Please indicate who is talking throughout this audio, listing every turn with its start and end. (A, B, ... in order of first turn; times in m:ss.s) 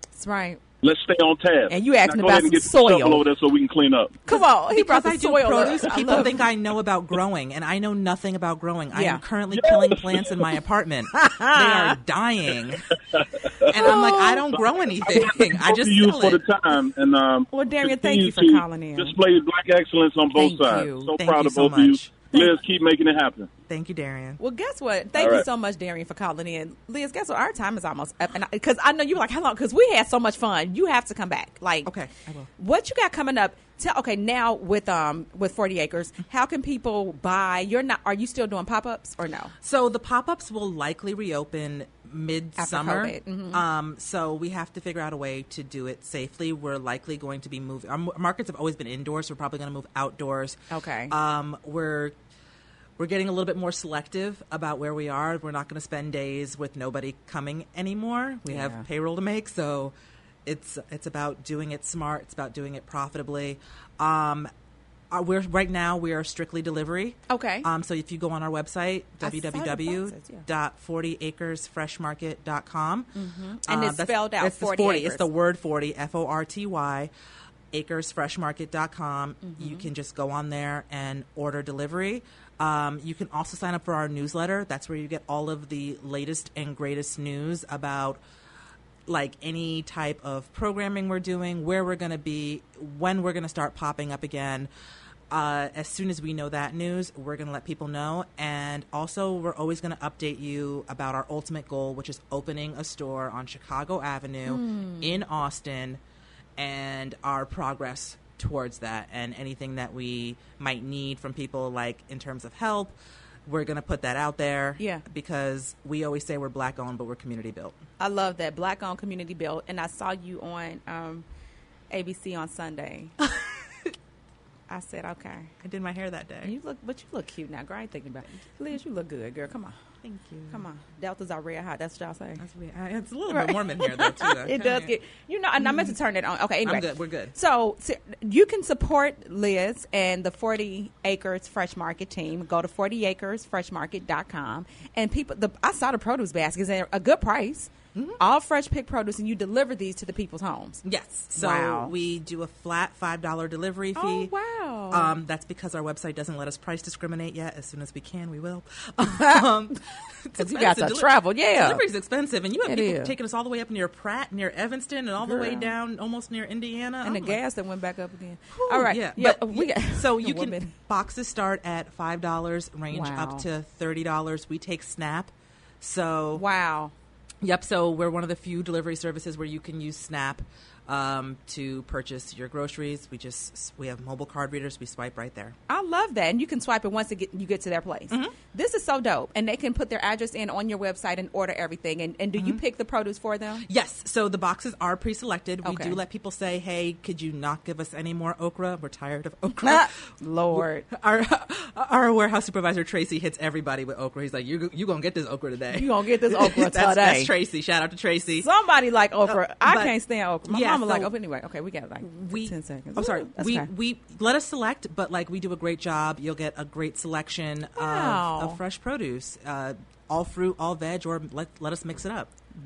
0:00.1-0:00.6 A
0:00.8-0:04.2 B
0:01.7-0:03.2 A
0:04.2-0:06.3 A
0:04.3-0:12.9 C
0:08.9-0:09.2 A
0:09.5-0:10.4 B
0:11.1-0:12.0 A
0:13.1-0:13.8 B
0:13.6-0:16.4 C
0:13.7-0:14.5 A
0:15.0-0:23.5 B
0:17.5-0:19.2 A
0:20.3-0:21.1 A
0:21.2-0:22.5 C
0:23.7-0:24.4 C
0:24.4-0:31.9 A
0:25.2-0:25.4 B
0:31.8-0:32.5 C
0:32.6-0:39.5 A
0:39.6-0:52.1 C
0:42.6-0:43.6 A
0:50.7-0:51.1 A
0:53.0-0:59.9 C
0:58.5-0:58.8 A
1:00.4-1:04.5 C
1:05.1-1:13.1 C
1:07.3-1:07.7 A
1:09.2-1:10.4 A
1:13.1-1:15.2 A
1:13.6-1:17.1 C
1:17.7-1:28.2 C
1:19.4-1:19.9 A
1:29.1-1:34.7 C
1:35.3-1:46.0 C
1:44.4-1:45.2 A
1:46.6-1:52.9 C
1:53.4-1:57.8 C
1:54.8-1:55.0 A
1:58.0-2:01.2 A
2:01.9-2:03.2 A
2:04.7-2:05.5 A
2:05.6-2:06.5 C
2:06.4-2:09.7 A
2:10.0-2:10.6 C
2:10.5-2:12.4 A
2:12.4-2:14.9 C
2:13.3-2:30.8 A
2:15.6-2:15.9 C
2:16.6-2:17.3 C
2:27.9-2:28.2 C
2:30.8-2:34.3 C
2:31.3-2:31.9 A
2:33.9-2:35.1 A
2:34.9-2:47.4 C
2:40.3-2:41.8 A
2:42.6-2:43.1 A
2:45.2-2:45.7 A
2:47.0-2:50.7 A
2:48.5-2:56.4 C
2:52.9-2:53.4 A
2:56.3-2:56.9 A
2:57.4-3:05.6 C
3:05.7-3:13.6 A
3:08.1-3:08.3 C
3:12.4-3:12.6 C
3:13.6-3:19.9 C
3:15.6-3:16.0 A
3:19.6-3:20.9 A
3:20.5-3:28.5 C
3:25.7-3:27.3 A
3:28.4-3:33.7 A
3:29.2-3:29.9 C
3:30.5-3:31.1 C
3:32.0-3:42.3 C
3:37.8-3:38.6 A